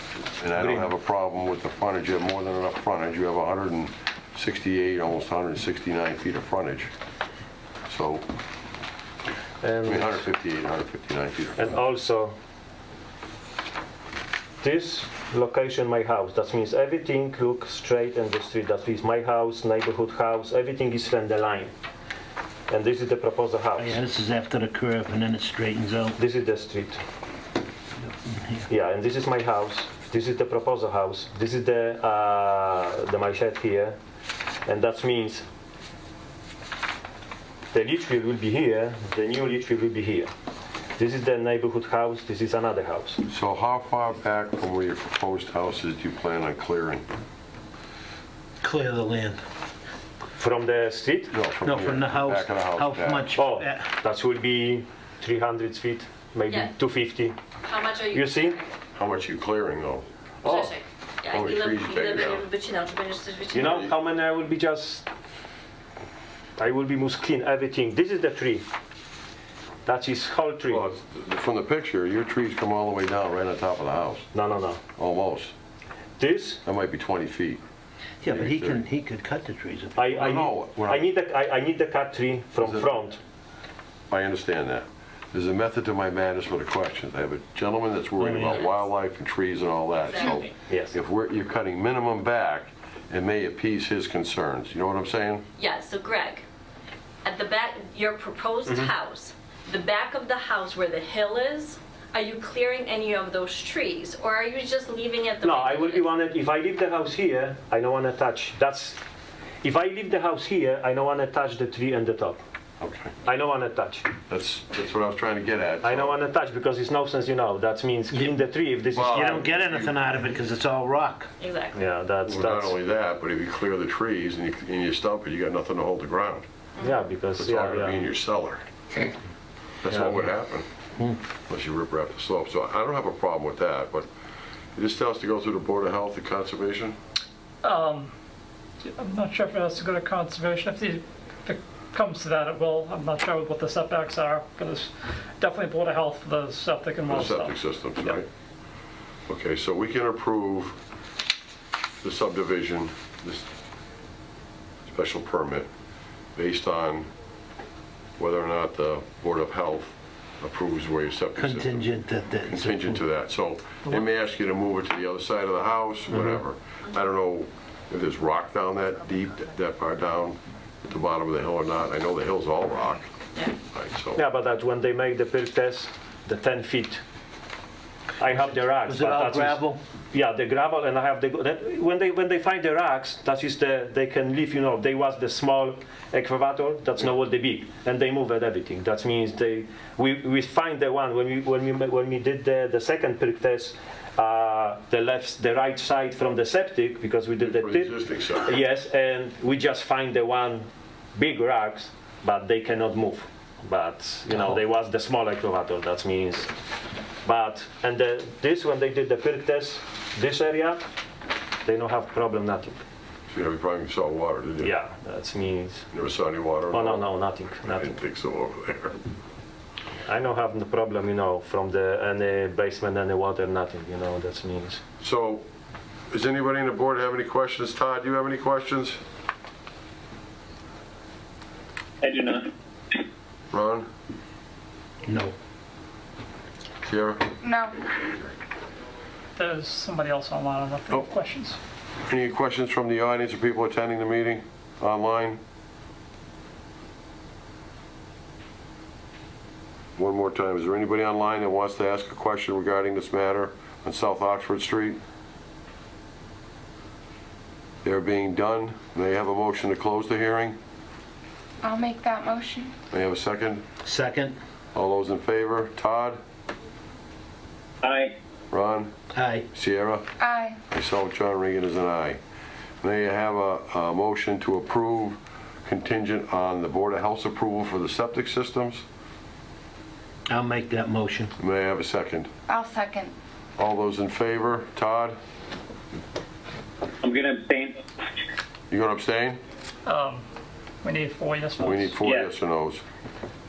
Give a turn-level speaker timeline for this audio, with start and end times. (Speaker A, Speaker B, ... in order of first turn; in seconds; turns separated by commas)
Speaker A: 0.2-6.9, Speaker A: 7.9-8.2, Speaker B: 9.6-10.2, Speaker A: 9.8-11.6, Speaker B: 11.6-12.3, Speaker B: 14.6-21.7, Speaker B: 22.7-24.0, Speaker C: 23.8-26.2, Speaker B: 26.2-27.0, Speaker C: 28.3-28.6, Speaker B: 28.7-34.0, Speaker B: 34.6-35.4, Speaker B: 37.7-40.3, Speaker B: 41.0-43.2, Speaker A: 43.3-47.0, Speaker C: 48.6-49.4, Speaker B: 50.4-51.3, Speaker A: 51.3-53.3, Speaker C: 51.6-53.9, Speaker B: 53.3-57.4, Speaker D: 57.6-58.7, Speaker B: 58.1-58.5, Speaker A: 58.9-60.0, Speaker B: 60.4-60.7, Speaker D: 60.4-63.9, Speaker A: 61.3-62.4, Speaker B: 63.5-65.0, Speaker B: 66.6-68.6, Speaker B: 69.8-70.8, Speaker A: 70.7-74.3, Speaker B: 74.3-74.8, Speaker A: 75.0-75.5, Speaker B: 76.2-76.6, Speaker A: 76.6-77.6, Speaker C: 78.2-80.0, Speaker A: 78.3-78.8, Speaker B: 80.0-83.2, Speaker A: 80.1-81.0, Speaker A: 82.6-82.9, Speaker A: 84.1-95.5, Speaker C: 88.2-88.5, Speaker D: 90.0-90.5, Speaker B: 90.5-91.0, Speaker D: 95.6-96.4, Speaker D: 97.2-106.1, Speaker B: 105.4-109.0, Speaker B: 109.6-112.4, Speaker A: 112.8-113.1, Speaker B: 113.2-114.1, Speaker A: 114.3-116.2, Speaker B: 115.8-119.5, Speaker C: 118.1-118.4, Speaker C: 118.9-121.3, Speaker A: 119.0-119.6, Speaker D: 121.4-121.8, Speaker B: 121.7-122.8, Speaker A: 122.2-126.5, Speaker B: 126.8-128.0, Speaker A: 127.3-128.7, Speaker A: 129.8-130.7, Speaker B: 129.9-130.3, Speaker A: 131.5-134.1, Speaker A: 134.8-137.0, Speaker E: 137.6-138.1, Speaker E: 138.9-148.2, Speaker A: 147.1-148.3, Speaker A: 149.3-150.8, Speaker A: 152.0-153.4, Speaker A: 154.8-155.7, Speaker A: 156.3-157.1, Speaker A: 158.2-161.9, Speaker C: 161.3-163.0, Speaker A: 162.5-173.1, Speaker A: 173.7-174.2, Speaker B: 174.1-177.0, Speaker B: 178.2-179.6, Speaker C: 178.2-179.8, Speaker B: 180.1-206.5, Speaker A: 197.4-198.6, Speaker B: 207.2-210.8, Speaker B: 211.6-212.8, Speaker A: 213.3-214.7, Speaker B: 214.6-215.9, Speaker A: 215.9-217.1, Speaker B: 216.7-217.9, Speaker A: 217.6-219.0, Speaker B: 220.1-224.8, Speaker A: 225.0-225.4, Speaker A: 226.1-229.0, Speaker F: 232.0-232.5, Speaker A: 233.5-233.9, Speaker C: 235.1-235.3, Speaker A: 236.8-237.3, Speaker G: 237.4-237.8, Speaker E: 239.4-241.6, Speaker A: 242.0-245.4, Speaker A: 250.0-255.0, Speaker A: 257.8-260.6, Speaker G: 261.6-262.7, Speaker A: 262.9-263.6, Speaker C: 263.8-264.4, Speaker A: 264.7-266.2, Speaker F: 267.8-268.1, Speaker A: 268.5-268.9, Speaker C: 269.1-269.4, Speaker A: 269.5-270.1, Speaker G: 270.2-270.6, Speaker A: 270.7-272.2, Speaker A: 272.8-278.8, Speaker C: 280.3-281.3, Speaker A: 281.4-282.3, Speaker G: 282.5-283.1, Speaker A: 283.6-285.2, Speaker F: 287.0-287.8, Speaker A: 288.7-289.4, Speaker E: 289.9-290.2, Speaker E: 290.8-292.0, Speaker A: 291.6-292.8, Speaker F: 292.0-292.3